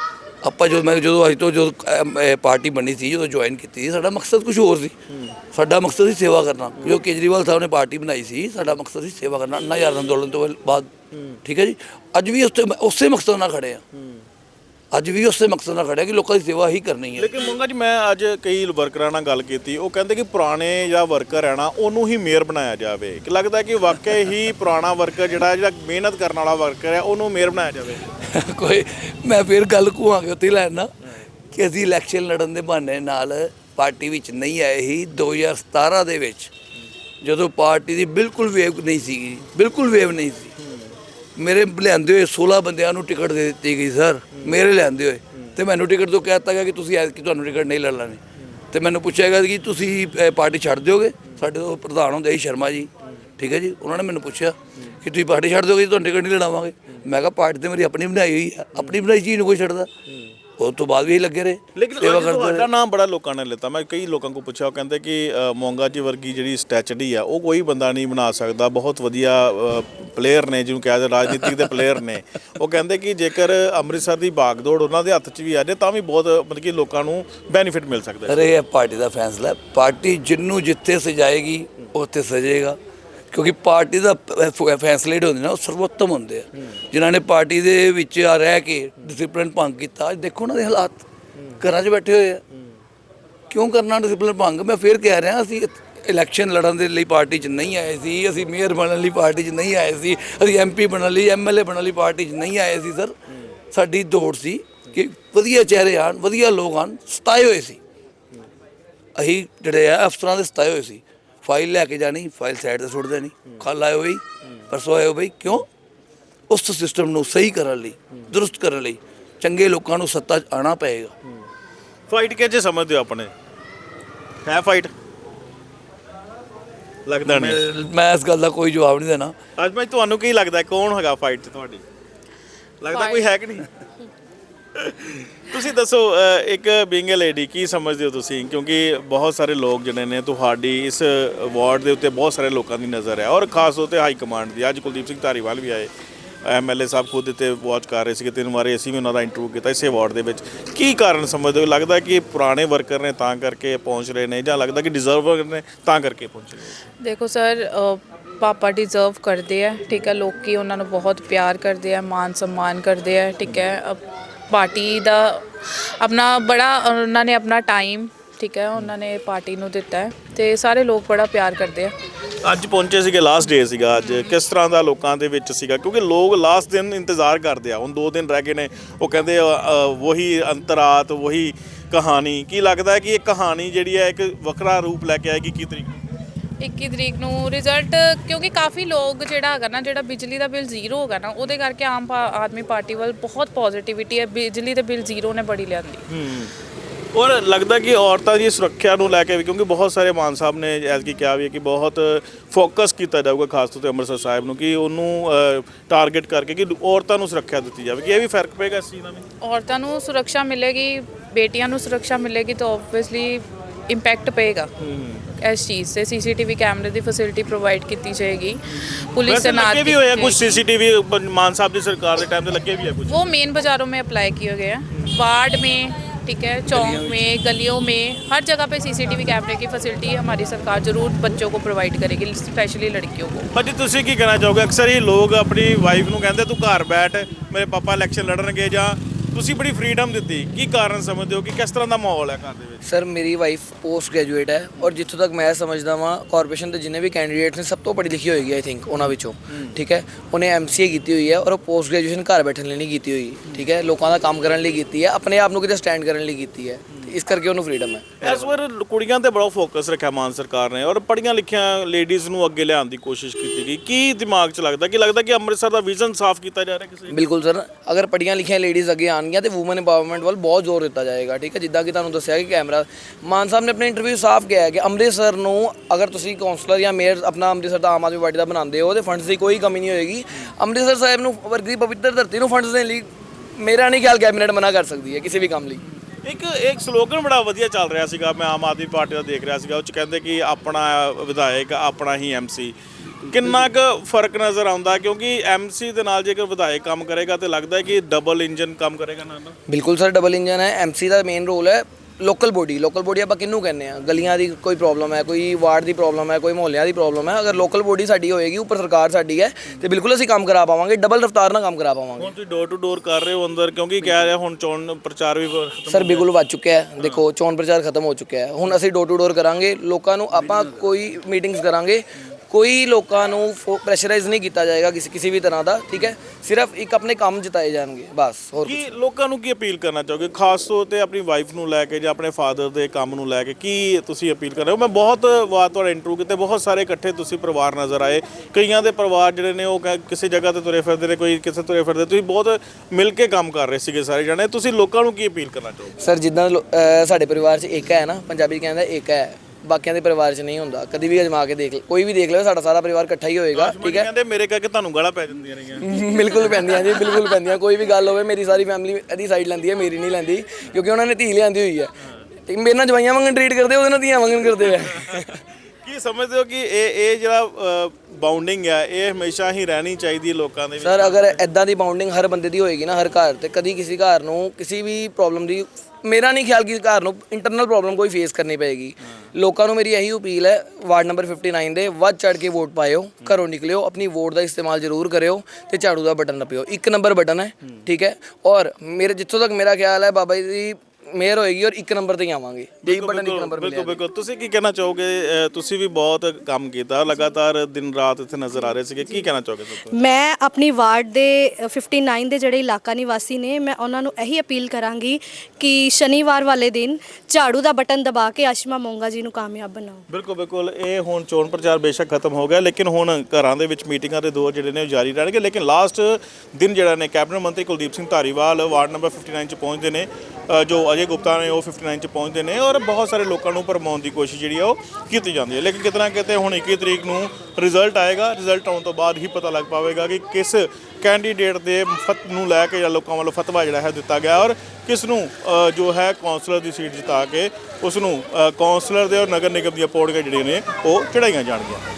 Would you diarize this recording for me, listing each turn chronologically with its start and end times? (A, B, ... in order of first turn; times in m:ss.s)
0:00.4-0:04.9 A
0:05.1-0:05.4 B
0:05.5-0:10.9 A
0:11.1-0:11.4 B
0:11.4-0:13.8 A
0:13.9-0:14.2 B
0:14.9-0:17.3 A
0:17.2-0:28.1 B
0:28.1-0:30.9 A
0:31.5-0:36.5 A
0:37.2-0:40.5 A
0:40.6-0:40.9 B
0:41.4-0:48.2 A
0:48.7-0:59.9 A
1:00.6-1:02.7 A
1:01.8-1:18.4 B
1:18.2-1:22.8 A
1:23.3-1:31.0 A
1:31.6-1:32.4 A
1:33.5-1:43.1 A
1:43.7-1:47.8 A
1:49.2-1:55.7 A
1:56.5-2:01.1 A
2:02.1-2:03.3 B
2:04.4-2:04.9 B
2:07.0-2:07.6 B
2:07.2-2:09.3 A
2:09.6-2:11.8 B
2:12.8-2:13.7 B
2:12.9-2:13.4 C
2:14.7-2:25.9 B
2:26.4-2:36.8 B
2:37.0-2:51.9 C
2:52.4-3:05.9 B
2:54.0-2:54.3 C
3:06.6-3:16.0 C
3:16.1-3:16.5 B
3:17.1-3:29.2 B
3:29.4-3:34.7 C
3:34.8-3:35.3 B
3:35.4-3:40.6 C
3:38.9-3:43.3 B
3:43.1-3:53.5 C
3:53.5-4:02.8 B
4:02.8-4:18.5 D
4:09.5-4:09.8 B
4:18.2-4:27.2 B
4:27.1-4:45.8 D
4:46.2-4:59.6 B
4:59.7-5:12.3 D
5:12.2-5:16.3 B
5:15.9-5:28.9 D
5:28.6-5:46.0 B
5:46.0-5:54.1 D
5:53.5-5:55.9 B
5:55.8-6:01.9 D
6:02.5-6:05.4 D
6:05.8-6:11.4 B
6:10.8-6:34.0 D
6:32.8-6:40.0 B
6:39.9-6:50.0 E
6:50.1-7:21.8 B